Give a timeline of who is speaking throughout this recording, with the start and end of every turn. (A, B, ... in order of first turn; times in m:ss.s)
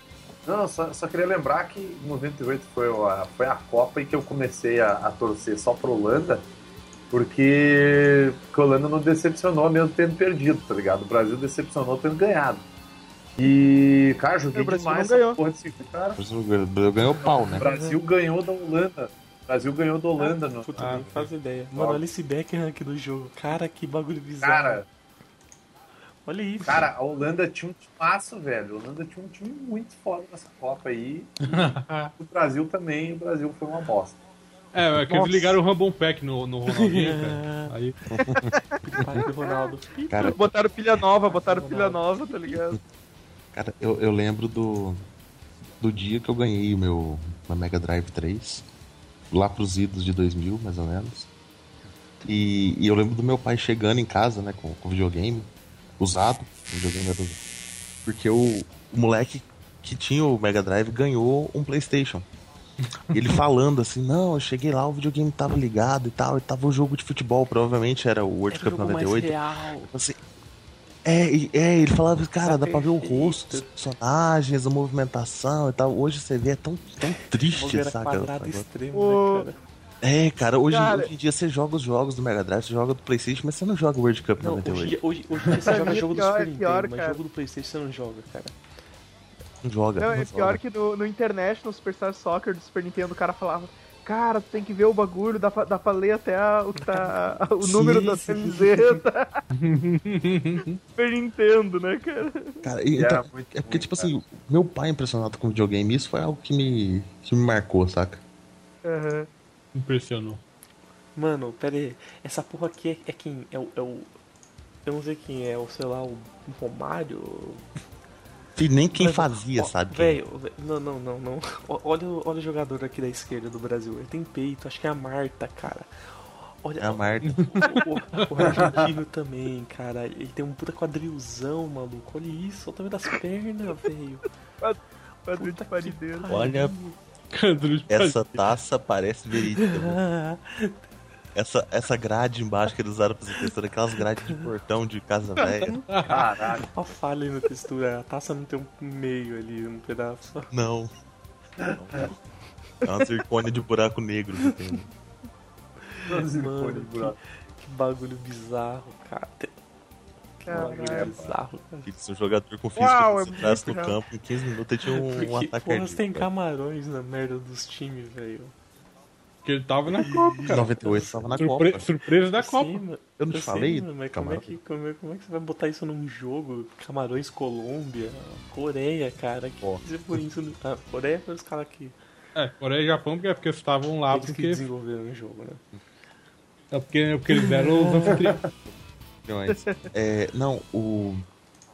0:00.4-0:06.4 A
0:07.1-0:12.6 A
0:13.4-0:16.2 A
0:14.5-0:15.4 B
0:16.2-0:17.7 C
0:17.3-0:21.0 A
0:17.6-0:18.0 D
0:20.2-0:24.8 D
0:20.8-0:21.3 E
0:21.7-0:22.0 A
0:24.4-0:24.8 A
0:26.2-0:26.9 D
0:26.6-0:34.2 A
0:31.4-0:32.1 E
0:34.7-0:38.0 E
0:35.2-0:35.6 B
0:36.7-0:37.7 D
0:38.1-0:39.0 C
0:38.8-0:40.4 D
0:40.1-0:40.5 C
0:40.2-0:42.8 B
0:41.2-0:42.1 D
0:43.5-0:45.0 C
0:45.8-0:48.6 C
0:49.3-0:51.3 C
0:52.2-0:57.4 C
0:58.0-1:02.2 C
1:02.8-1:03.3 E
1:03.1-1:10.2 C
1:08.5-1:09.9 D
1:11.0-1:18.6 C
1:12.4-1:13.7 D
1:17.4-1:19.6 D
1:18.9-1:19.5 B
1:20.0-1:25.0 C
1:20.7-1:21.1 B
1:24.4-1:28.6 D
1:25.6-1:27.2 B
1:29.6-1:30.6 C
1:30.0-1:39.4 B
1:37.6-1:38.3 C
1:37.8-1:38.7 D
1:39.5-1:40.8 E
1:41.0-1:42.6 B
1:42.6-1:48.2 C
1:43.0-1:44.1 A
1:48.8-1:49.3 B
1:49.7-1:50.4 E
1:51.1-1:54.1 D
1:54.8-1:57.6 D
1:58.6-2:00.2 C
1:58.9-2:05.9 D
2:06.6-2:14.2 D
2:06.8-2:07.5 C
2:07.2-2:07.6 E
2:08.4-2:08.9 A
2:14.6-2:16.4 B
2:15.4-2:17.0 D
2:16.3-2:16.7 C
2:17.3-2:18.2 E
2:17.9-2:20.0 C
2:19.6-2:20.8 D
2:21.3-2:25.8 C
2:25.9-2:26.2 E
2:26.0-2:26.7 A
2:26.7-2:30.5 D
2:30.5-2:30.9 C
2:31.6-2:32.0 A
2:31.7-2:32.1 C
2:32.8-2:34.9 C
2:35.9-2:39.5 D
2:36.1-2:37.2 A
2:40.4-2:41.9 D
2:40.5-2:41.1 B
2:40.5-2:41.4 A
2:41.8-2:46.3 C
2:42.8-2:44.0 B
2:44.9-2:48.5 D
2:49.4-2:50.7 E
2:49.9-2:51.4 D
2:50.5-2:51.9 C
2:51.4-2:52.8 E
2:52.4-3:02.0 D
2:53.2-2:54.6 C
3:02.3-3:04.6 E
3:04.1-3:05.6 D
3:06.7-3:08.4 E
3:07.6-3:08.2 D
3:08.1-3:08.4 A
3:09.2-3:11.2 C
3:09.5-3:09.8 B